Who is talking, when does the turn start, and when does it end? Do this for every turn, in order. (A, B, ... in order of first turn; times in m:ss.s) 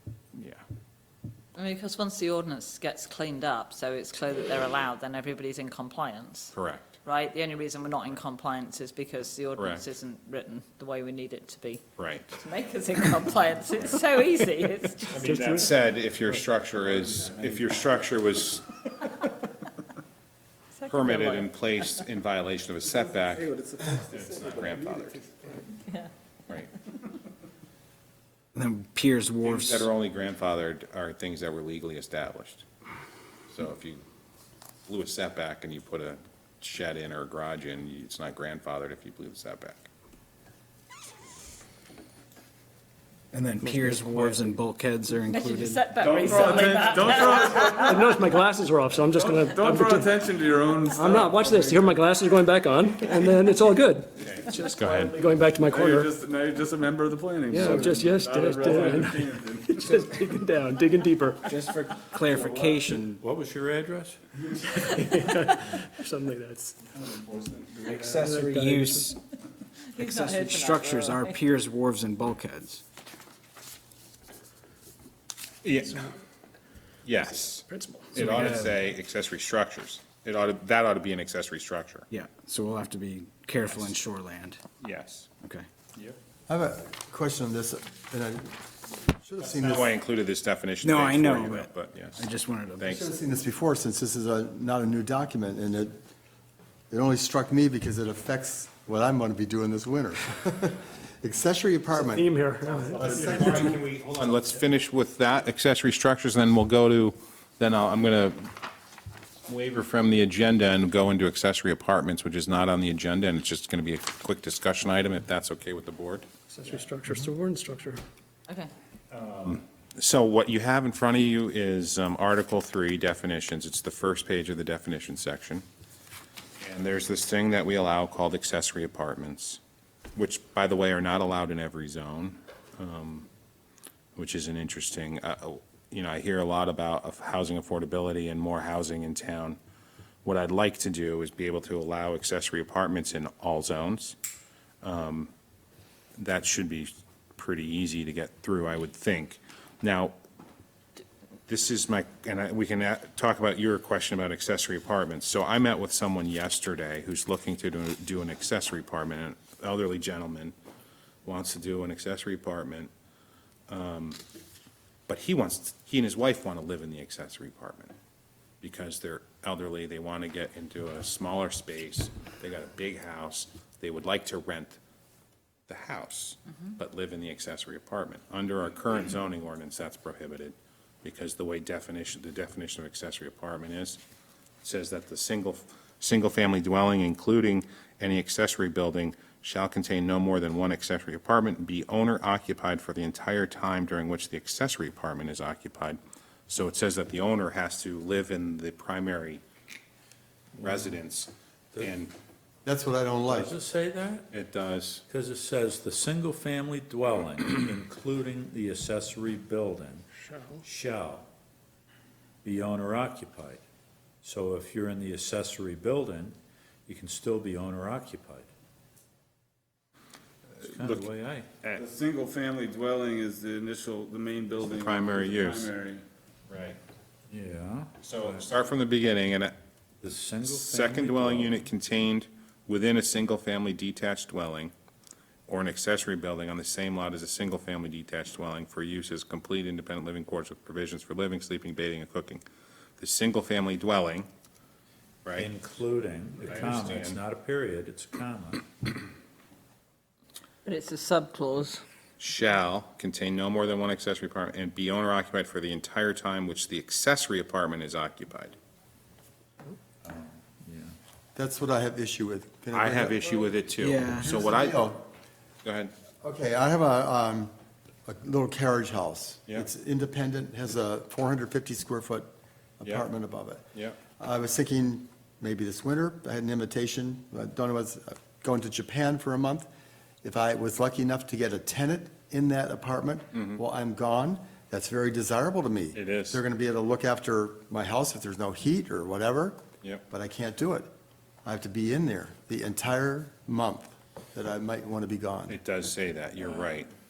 0:00.3-0:00.6 A
0:01.6-0:11.8 B
0:06.5-0:07.0 A
0:09.6-0:09.8 A
0:12.0-0:12.4 A
0:12.4-0:15.1 B
0:15.1-0:19.0 A
0:15.1-0:15.7 C
0:20.8-0:21.5 B
0:20.9-0:25.2 A
0:23.6-0:23.8 D
0:28.6-0:29.9 E
0:29.4-0:32.6 A
0:33.5-0:34.0 A
0:34.9-0:39.8 A
0:43.3-0:45.8 E
0:45.3-0:47.9 B
0:45.5-0:50.2 C
0:45.9-0:48.2 D
0:49.1-0:52.1 D
0:50.9-0:56.1 C
0:53.1-0:53.4 D
0:54.2-0:54.5 D
0:54.3-0:55.2 A
0:55.6-1:00.2 D
0:57.5-1:01.5 C
1:01.4-1:03.2 E
1:02.3-1:03.0 D
1:03.2-1:04.2 F
1:04.7-1:06.8 C
1:07.0-1:08.2 D
1:07.8-1:09.2 E
1:08.2-1:09.1 C
1:09.9-1:11.3 B
1:10.0-1:12.8 E
1:15.6-1:16.0 A
1:17.0-1:22.1 A
1:17.7-1:18.2 C
1:18.2-1:18.7 E
1:22.1-1:24.6 E
1:24.8-1:25.3 A
1:26.5-1:29.9 G
1:29.4-1:32.2 A
1:30.8-1:32.8 E
1:32.8-1:33.1 A
1:32.9-1:36.0 G
1:36.9-1:42.4 G
1:42.0-1:43.5 C
1:42.9-1:43.8 G
1:43.0-1:48.5 A
1:49.5-1:56.3 A
1:56.5-1:58.0 C
1:57.1-1:57.3 F
1:59.2-2:05.6 A
2:06.6-2:09.6 A
2:10.2-2:13.3 A
2:14.2-2:19.6 A
2:20.2-2:24.2 A
2:24.8-2:25.3 A
2:26.2-2:30.1 A
2:31.5-2:40.6 A
2:41.2-2:42.9 A
2:43.7-2:44.2 A
2:45.1-2:47.9 A
2:48.6-2:54.8 A
2:55.7-3:04.0 A
3:04.6-3:19.4 A
3:20.6-3:22.1 A
3:20.6-3:20.9 F
3:22.6-3:23.6 G
3:23.3-3:24.3 F
3:24.3-3:25.0 A
3:25.1-3:30.1 F
3:30.6-3:31.3 F
3:32.4-3:33.6 F
3:34.2-3:36.4 F
3:36.9-3:38.5 F
3:40.6-3:41.5 F
3:40.6-3:41.1 A
3:41.7-3:46.0 D
3:44.7-3:45.7 A
3:46.5-3:46.8 A
3:47.3-3:48.4 F
3:48.0-3:49.5 A
3:50.0-3:51.6 F
3:50.4-3:54.7 A
3:55.5-4:02.4 A
4:03.0-4:04.3 A
4:05.3-4:08.6 F
4:06.5-4:07.2 A
4:10.6-4:11.8 B
4:12.2-4:18.6 A
4:20.0-4:21.0 F
4:21.4-4:23.5 G
4:22.7-4:24.9 A
4:23.8-4:24.2 E
4:24.2-4:25.0 G
4:25.6-4:25.9 A
4:26.2-4:27.5 G
4:28.1-4:33.6 G
4:34.2-4:39.7 G
4:40.2-4:49.6 G
4:43.3-4:43.6 A
4:45.9-4:46.4 A
4:50.1-4:50.9 G
4:51.4-4:55.6 G
4:55.5-4:56.9 A